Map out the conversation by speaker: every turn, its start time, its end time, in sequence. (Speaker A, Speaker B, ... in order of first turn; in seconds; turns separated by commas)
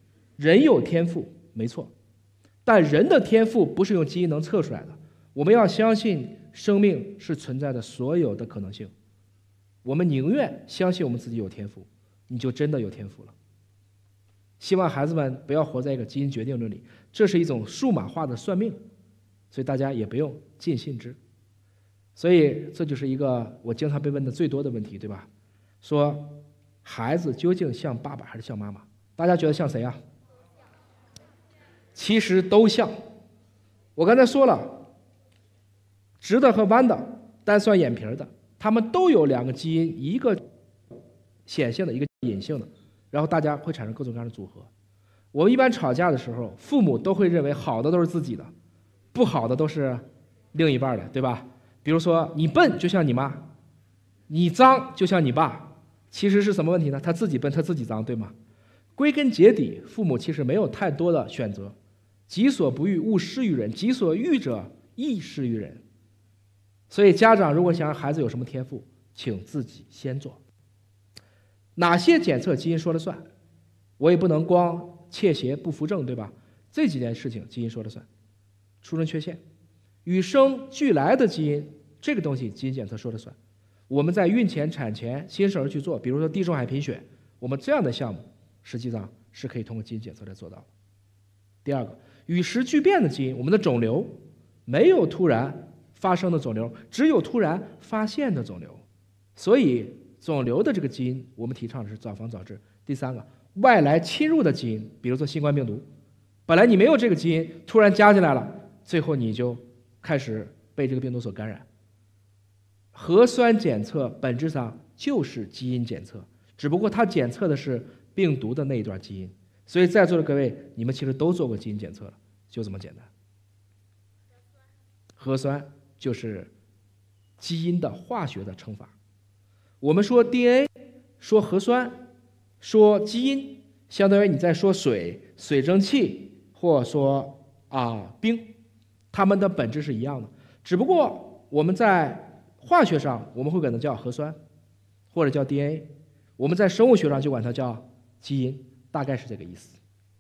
Speaker A: 0.4-1.9, Speaker A: 2.6-8.9, Speaker A: 9.8-13.3, Speaker A: 14.6-18.8, Speaker A: 19.5-21.2, Speaker A: 22.2-25.3, Speaker A: 25.8-30.0, Speaker A: 31.9-32.9, Speaker A: 34.0-34.8, Speaker A: 36.2-40.4, Speaker A: 41.5-44.7, Speaker A: 45.3-48.5, Speaker A: 49.1-53.5, Speaker A: 54.3-58.3, Speaker A: 59.0-61.8, Speaker A: 62.3-65.8, Speaker A: 66.9-70.4, Speaker A: 71.8-73.2, Speaker A: 74.0-78.1, Speaker A: 78.8-79.4, Speaker A: 80.0-83.4, Speaker A: 83.9-90.7, Speaker A: 91.6-98.8, Speaker A: 99.4-105.9, Speaker A: 106.5-111.7, Speaker A: 112.9-123.1, Speaker A: 125.2-126.5, Speaker A: 127.4-128.9, Speaker A: 129.8-132.0, Speaker A: 132.6-138.5, Speaker A: 139.1-144.4, Speaker A: 145.1-149.8